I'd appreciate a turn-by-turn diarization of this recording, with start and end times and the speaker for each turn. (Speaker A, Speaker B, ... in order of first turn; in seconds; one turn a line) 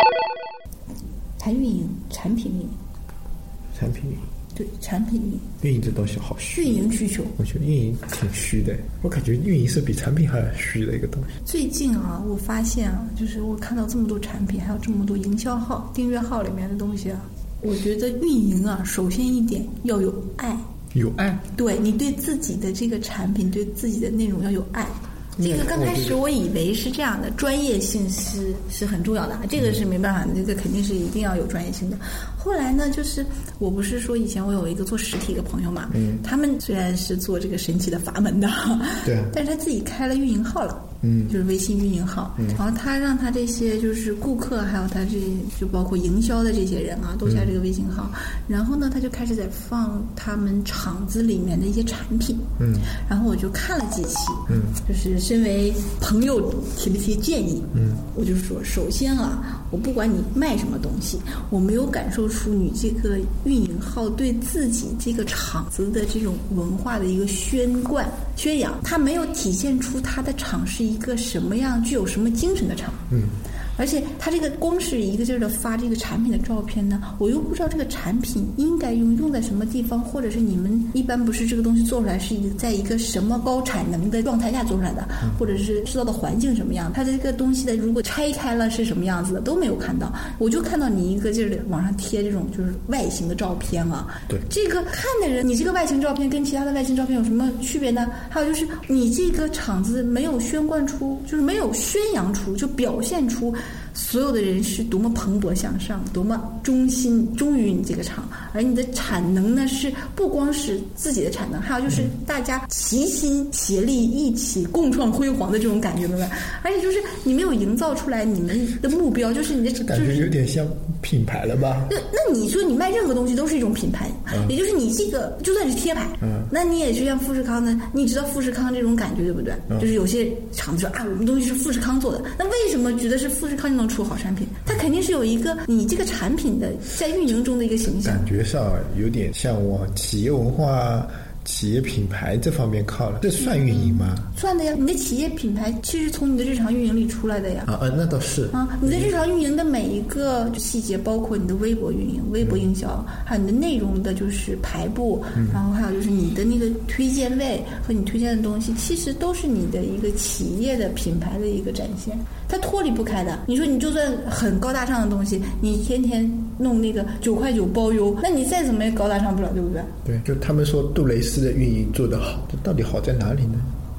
Speaker A: 1.4-2.8
Speaker B: 3.7-4.2
Speaker A: 4.5-5.5
Speaker B: 5.6-6.8
Speaker A: 6.5-7.3
Speaker B: 7.4-11.3
Speaker A: 11.4-20.6
Speaker B: 20.9-21.4
Speaker A: 21.5-73.1
Speaker B: 25.4-26.2
Speaker B: 35.9-36.2
Speaker B: 39.0-39.3
Speaker B: 41.0-41.4
Speaker B: 47.2-47.5
Speaker B: 52.6-52.9
Speaker B: 54.5-54.8
Speaker B: 57.7-58.0
Speaker A: 73.8-120.3
Speaker B: 119.8-121.9
Speaker A: 121.9-138.2
Speaker B: 126.2-126.5
Speaker B: 138.0-144.3
Speaker A: 143.4-147.7
Speaker B: 147.7-149.2
Speaker A: 148.5-169.9
Speaker B: 152.4-152.7
Speaker B: 170.1-173.7